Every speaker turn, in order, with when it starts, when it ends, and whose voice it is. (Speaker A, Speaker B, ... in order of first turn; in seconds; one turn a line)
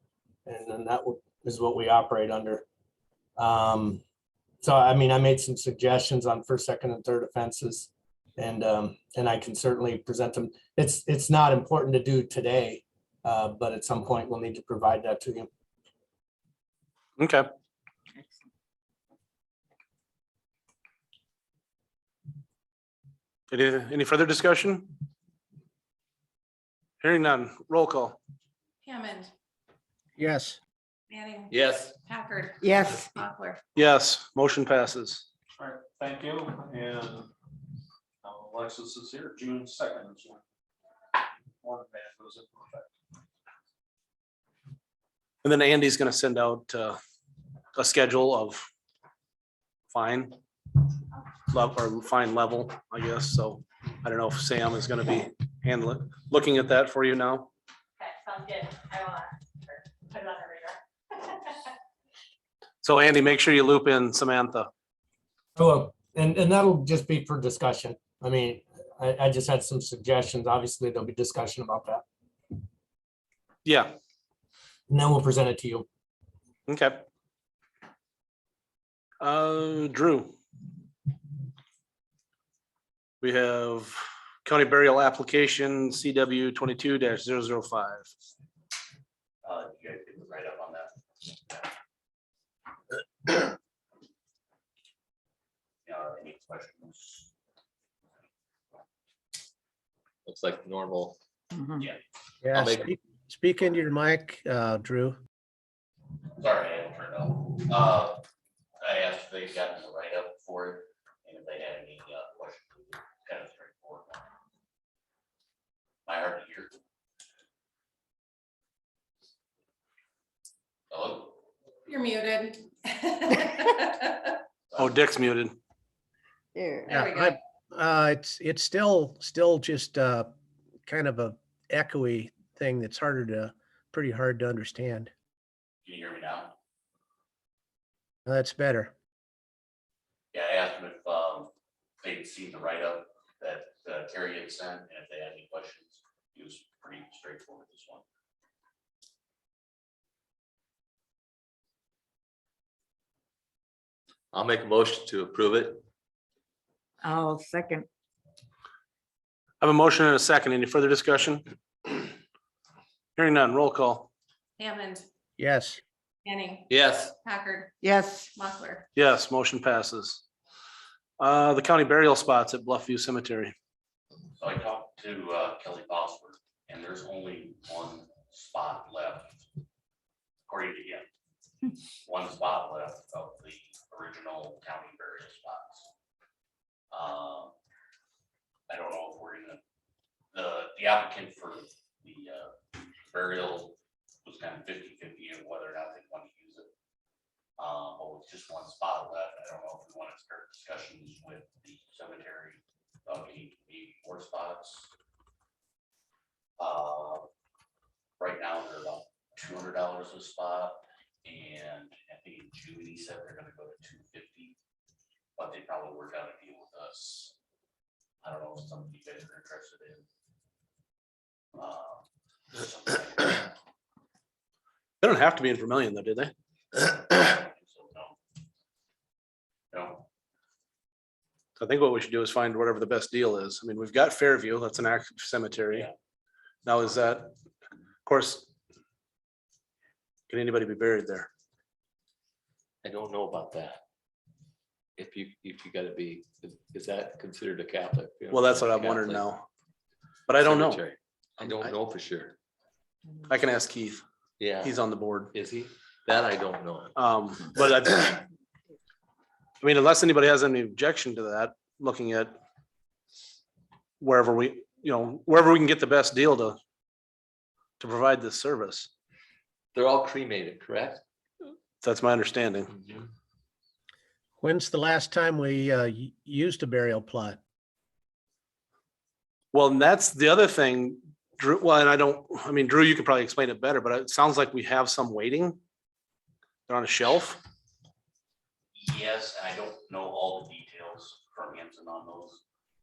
Speaker A: 0.5-2.6
Speaker A: 3.4-4.0
Speaker A: 4.6-15.5
Speaker B: 17.2-17.5
Speaker B: 23.5-24.9
Speaker B: 27.0-28.2
Speaker C: 28.8-29.3
Speaker D: 30.2-30.6
Speaker C: 31.1-33.6
Speaker E: 31.5-31.9
Speaker F: 32.6-33.2
Speaker B: 33.8-35.3
Speaker G: 35.6-37.3
Speaker G: 38.2-40.4
Speaker G: 41.6-42.9
Speaker B: 45.4-47.0
Speaker B: 47.8-48.7
Speaker B: 49.9-50.4
Speaker B: 51.5-57.5
Speaker C: 58.0-61.7
Speaker B: 62.8-64.7
Speaker A: 65.6-72.0
Speaker B: 73.7-73.9
Speaker A: 74.9-75.9
Speaker B: 76.7-77.0
Speaker B: 79.2-80.3
Speaker B: 83.2-88.1
Speaker H: 89.4-91.7
Speaker H: 95.8-97.3
Speaker E: 100.3-101.2
Speaker D: 102.4-105.2
Speaker E: 102.5-102.9
Speaker H: 106.4-108.2
Speaker H: 108.8-114.2
Speaker H: 116.1-116.8
Speaker H: 120.9-121.4
Speaker C: 121.9-124.4
Speaker B: 124.8-125.6
Speaker F: 126.5-126.9
Speaker C: 126.9-127.3
Speaker D: 126.9-130.3
Speaker D: 130.9-135.1
Speaker H: 135.8-136.6
Speaker D: 138.3-138.9
Speaker H: 140.3-141.5
Speaker H: 142.0-148.0
Speaker E: 154.3-155.8
Speaker F: 157.0-157.9
Speaker B: 159.6-162.0
Speaker B: 163.2-164.1
Speaker C: 164.6-165.1
Speaker D: 165.4-165.8
Speaker C: 166.2-166.7
Speaker E: 166.7-167.1
Speaker C: 167.2-167.8
Speaker F: 167.8-168.3
Speaker C: 168.3-168.9
Speaker B: 168.9-170.2
Speaker B: 171.2-173.5
Speaker H: 174.4-179.4
Speaker H: 180.5-181.1
Speaker H: 182.1-185.9
Speaker H: 186.9-187.5
Speaker H: 188.7-189.6
Speaker H: 190.3-196.7
Speaker H: 197.6-204.9
Speaker H: 206.6-207.3
Speaker H: 208.2-214.6
Speaker H: 215.4-217.3
Speaker H: 218.2-220.0
Speaker H: 221.6-223.5
Speaker B: 225.0-226.3
Speaker H: 226.8-228.2
Speaker H: 229.7-230.1
Speaker B: 231.6-235.9
Speaker B: 236.7-237.3
Speaker B: 238.1-238.5
Speaker B: 240.3-241.3
Speaker E: 242.8-243.8
Speaker E: 245.0-249.3
Speaker B: 248.3-249.4
Speaker B: 250.3-250.8
Speaker E: 250.4-252.4
Speaker B: 253.3-254.0
Speaker E: 254.4-254.8
Speaker B: 254.6-255.3
Speaker E: 255.3-256.9
Speaker B: 256.9-258.2
Speaker B: 259.6-262.4
Speaker B: 264.0-266.6
Speaker B: 267.8-268.9
Speaker E: 269.7-271.0
Speaker B: 271.8-272.8
Speaker D: 274.4-277.4
Speaker B: 279.5-285.6
Speaker B: 286.7-287.4
Speaker H: 288.8-292.4